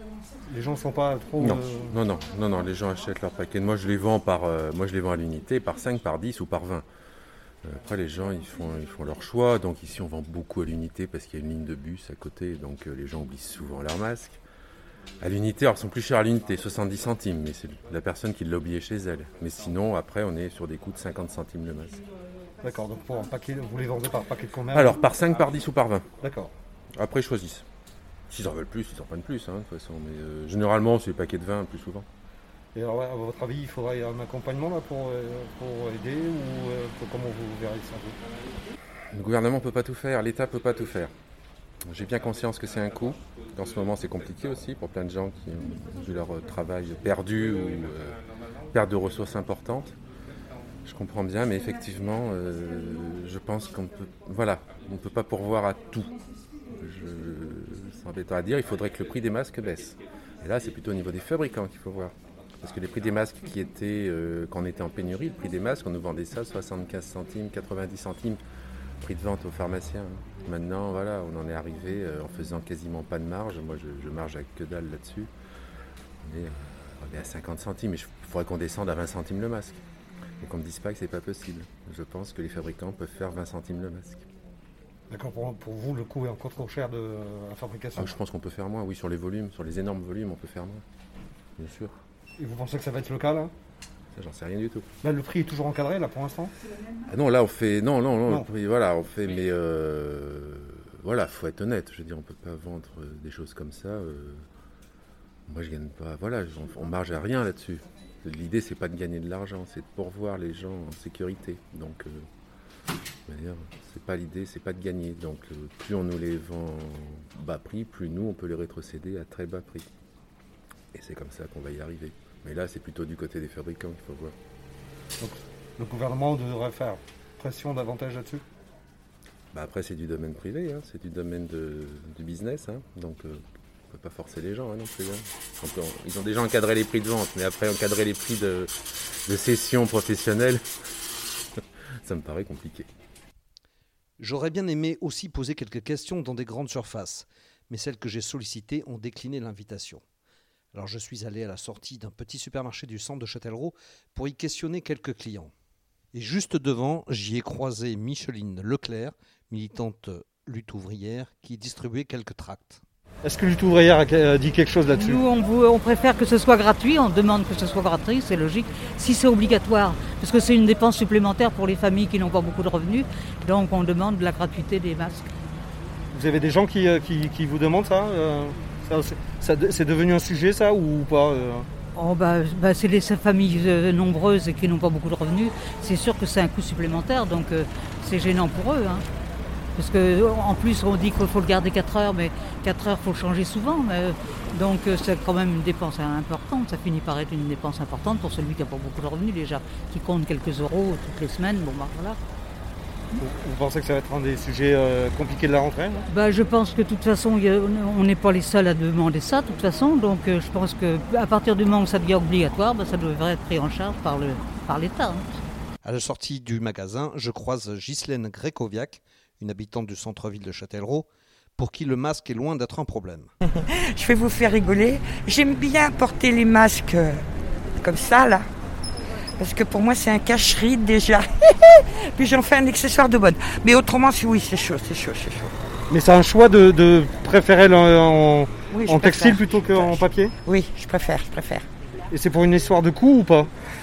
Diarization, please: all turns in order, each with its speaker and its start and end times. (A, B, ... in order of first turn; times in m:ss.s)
0:00.5-0:01.9 A
0:01.4-0:06.8 B
0:07.6-0:14.4 B
0:15.2-0:22.0 B
0:22.6-0:25.0 A
0:24.7-0:26.0 B
0:26.2-0:26.5 A
0:26.9-0:27.6 B
0:28.3-0:32.0 B
0:32.7-0:38.2 A
0:39.1-0:41.1 B
0:41.9-0:48.2 B
0:48.7-0:50.0 B
0:50.8-0:56.2 B
0:56.8-1:08.4 B
1:09.0-1:15.3 B
1:16.2-1:19.8 B
1:20.4-1:24.2 B
1:25.1-1:28.1 A
1:28.0-1:30.8 B
1:31.6-1:31.9 B
1:32.4-1:33.5 A
1:34.1-1:34.9 B
1:35.0-1:36.5 A
1:37.1-1:44.4 B
1:45.5-1:52.2 B
1:53.3-1:59.9 B
2:00.9-2:04.3 B
2:05.2-2:08.4 A
2:09.5-2:18.7 B
2:19.2-2:20.6 B
2:22.0-2:22.9 B
2:24.2-2:30.0 C
2:30.7-2:35.5 C
2:36.1-2:42.8 C
2:43.2-2:45.2 A
2:44.9-2:55.3 D
2:56.1-3:01.7 A
3:02.0-3:09.0 D
3:09.8-3:22.2 D
3:23.2-3:26.0 A
3:26.1-3:35.3 D
3:35.8-3:43.3 C
3:43.9-3:47.2 E
3:47.8-3:48.4 E
3:49.4-3:55.5 E
3:55.9-4:00.3 A
3:58.7-4:01.6 E
4:02.1-4:03.5 A